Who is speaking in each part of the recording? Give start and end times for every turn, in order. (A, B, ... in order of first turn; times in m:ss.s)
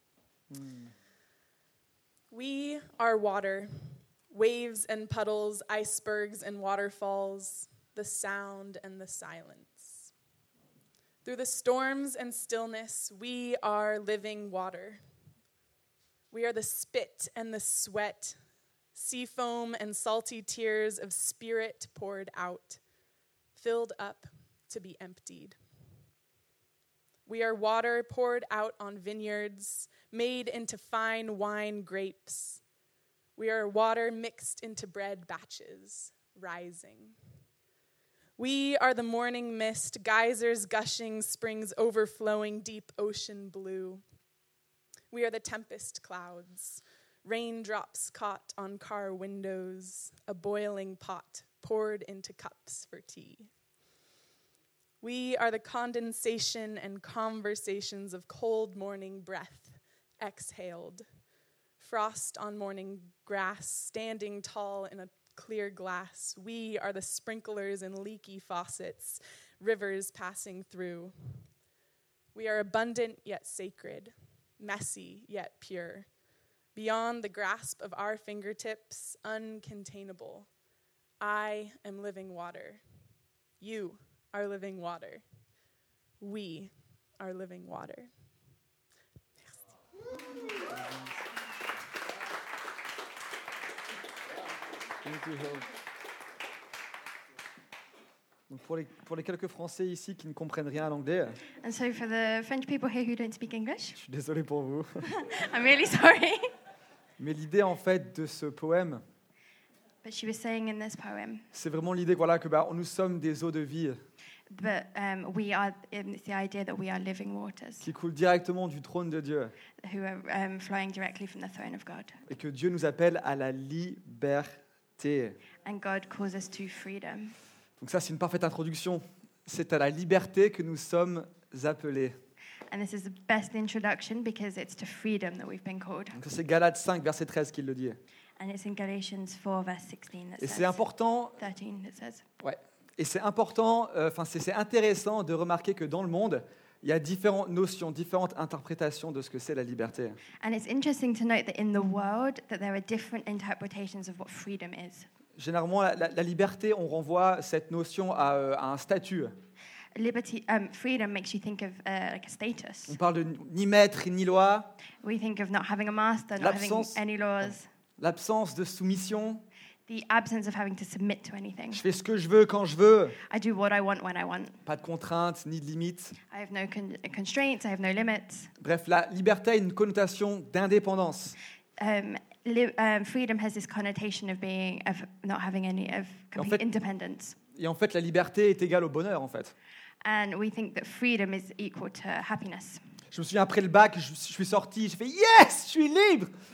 0:00.5-0:00.9 A
0:02.3-0:03.7 B
0:04.3-0:10.1 B
0:11.2-0:15.0 B
0:16.3-0:18.4 B
0:19.0-0:22.8 B
0:23.6-0:25.6 B
0:27.3-0:32.6 B
0:33.4-0:37.2 B
0:38.4-0:44.0 B
0:45.1-0:53.5 B
0:55.0-1:01.0 B
1:01.8-1:11.1 B
1:12.3-1:16.1 B
1:16.8-1:20.5 B
1:21.2-1:22.8 B
1:23.6-1:25.2 B
1:26.2-1:28.1 B
1:30.7-1:31.0 A
1:35.0-1:35.7 A
1:38.5-1:41.4 A
1:41.6-1:44.0 C
1:44.0-1:45.1 A
1:45.0-1:46.5 C
1:47.2-1:49.0 A
1:50.0-1:51.4 C
1:51.5-1:54.0 A
1:54.5-1:57.9 C
1:57.8-1:59.5 A
1:59.8-2:02.2 C
2:02.3-2:05.4 A
2:05.6-2:07.4 C
2:07.8-2:12.2 A
2:12.7-2:16.2 C
2:16.1-2:18.0 A
2:18.4-2:20.8 C
2:20.4-2:21.4 A
2:21.4-2:22.2 C
2:22.4-2:30.2 A
2:30.4-2:35.1 C
2:35.4-2:39.4 A
2:39.9-2:43.0 C
2:42.9-2:44.8 A
2:45.0-2:47.7 C
2:46.4-2:47.0 A
2:48.0-2:49.4 A
2:49.9-2:51.8 C
2:51.7-2:53.2 A
2:53.3-2:54.6 C
2:54.6-2:56.2 A
2:56.3-2:58.5 C
2:58.6-3:01.4 A
3:01.8-3:07.4 C
3:06.4-3:06.6 A
3:07.6-3:09.5 A
3:10.0-3:12.8 C
3:13.1-3:16.3 A